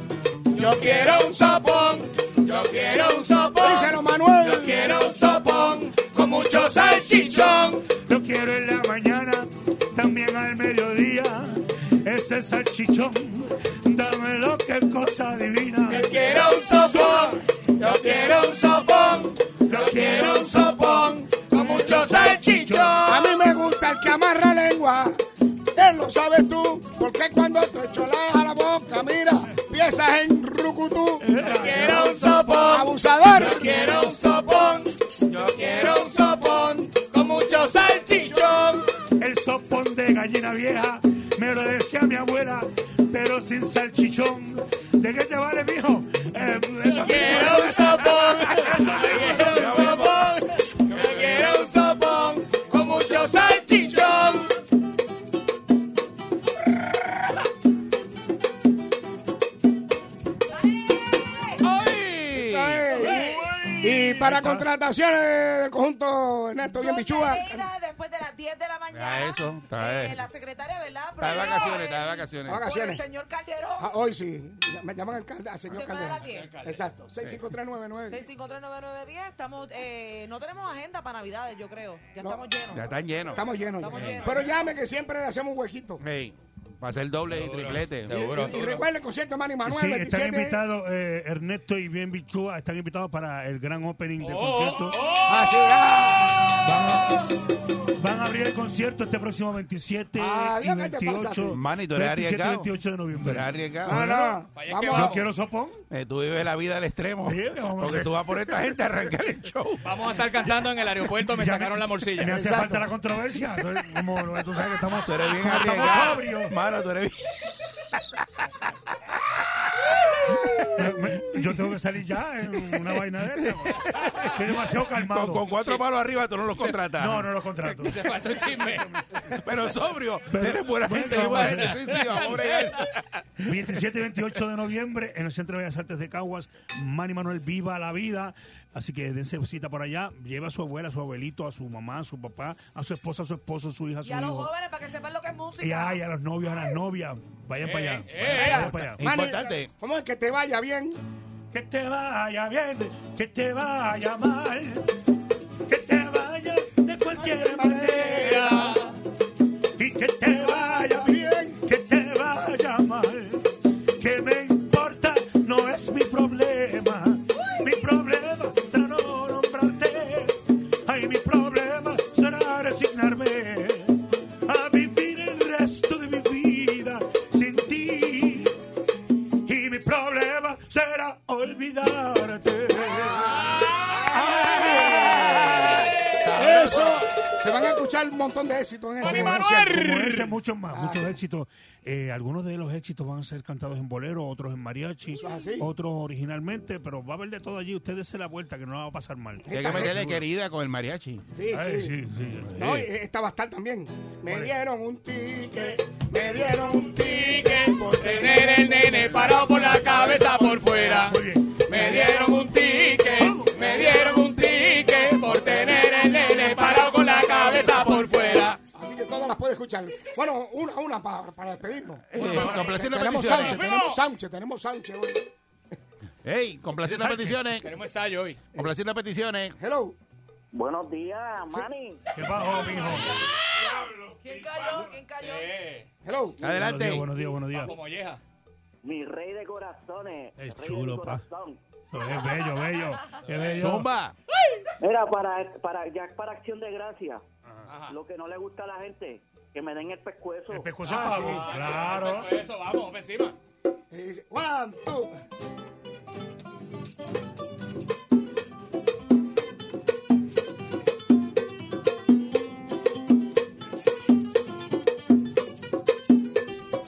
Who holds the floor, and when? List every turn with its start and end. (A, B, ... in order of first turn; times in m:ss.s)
0:00.5-0:07.9 A
0:03.6-0:04.9 B
0:08.0-0:16.1 C
0:15.9-0:23.5 A
0:16.9-0:17.4 C
0:19.7-0:20.6 C
0:21.5-0:23.0 C
0:23.0-0:25.2 B
0:25.7-0:31.3 B
0:31.2-0:32.3 C
0:31.4-0:38.8 A
0:32.2-0:33.8 B
0:33.4-0:34.0 C
0:39.2-0:49.9 C
0:46.9-0:54.5 A
0:49.3-0:50.4 D
1:00.5-1:01.6 E
1:01.6-1:03.0 D
1:02.3-1:07.7 B
1:03.0-1:03.7 A
1:04.2-1:04.6 C
1:06.7-1:13.9 E
1:08.9-1:10.3 D
1:11.2-1:12.6 D
1:12.4-1:13.0 B
1:13.8-1:18.2 B
1:15.7-1:16.5 E
1:16.2-1:16.8 A
1:18.1-1:24.5 E
1:22.7-1:23.4 D
1:23.3-1:26.0 B
1:26.0-1:28.5 D
1:27.3-1:28.9 A
1:28.1-1:30.6 B
1:29.6-1:35.1 C
1:34.2-1:35.9 A
1:35.2-1:36.7 B
1:36.6-1:37.2 C
1:38.0-1:45.8 C
1:40.2-1:41.6 B
1:41.5-1:44.0 D
1:43.8-1:45.2 B
1:44.5-1:45.2 A
1:45.9-1:49.9 D
1:47.2-1:48.2 C
1:49.8-1:52.4 A
1:51.3-1:56.5 C
1:52.3-1:52.9 B
1:55.0-1:58.5 D
1:59.1-2:01.4 D
2:00.7-2:05.5 C
2:02.8-2:07.8 D
2:05.5-2:05.8 A
2:06.9-2:08.0 C
2:07.8-2:09.0 A
2:09.2-2:13.2 D
2:10.3-2:12.0 C
2:11.3-2:12.9 A
2:13.4-2:24.5 C
2:24.0-2:26.0 E
2:25.6-2:29.2 C
2:27.6-2:28.7 A
2:28.3-2:31.0 B
2:28.5-2:29.7 D
2:31.5-2:34.9 C
2:35.7-2:38.7 C
2:37.2-2:38.8 B
2:38.2-2:38.9 A
2:39.8-2:43.5 C
2:40.2-2:41.6 B
2:44.0-2:58.5 C
2:59.4-3:03.4 C
3:02.8-3:09.8 B
3:04.7-3:05.8 A
3:06.2-3:07.0 D
3:09.0-3:10.3 A
3:09.0-3:20.2 C
3:10.7-3:11.1 B
3:15.1-3:15.7 B
3:19.4-3:20.1 B
3:19.5-3:21.2 D
3:21.3-3:22.0 B
3:21.5-3:22.5 C
3:22.5-3:22.9 D
3:22.6-3:30.8 B
3:24.3-3:24.5 C
3:26.9-3:38.6 A
3:31.0-3:31.6 C
3:33.2-3:33.6 C
3:33.8-3:34.1 B
3:37.5-3:38.0 C
3:38.7-3:45.2 B
3:42.1-3:43.6 D
3:42.2-3:44.0 A
3:46.2-3:47.7 D
3:46.8-3:48.4 A
3:48.5-3:49.6 D
3:49.6-3:50.0 B
3:50.5-3:52.1 F
3:52.1-3:53.2 C
3:53.7-3:55.5 E
3:55.2-3:55.9 A
3:56.0-3:56.4 B
3:56.4-3:57.1 D
3:56.4-3:57.8 C
3:57.6-3:58.2 A
3:58.8-4:01.6 F
4:00.4-4:01.2 C
4:01.9-4:03.9 C
4:03.6-4:04.1 D
4:04.8-4:07.2 F
4:07.7-4:08.0 A
4:07.9-4:10.8 F
4:10.5-4:12.3 C
4:10.9-4:11.5 B
4:10.9-4:13.4 A
4:13.9-4:15.1 B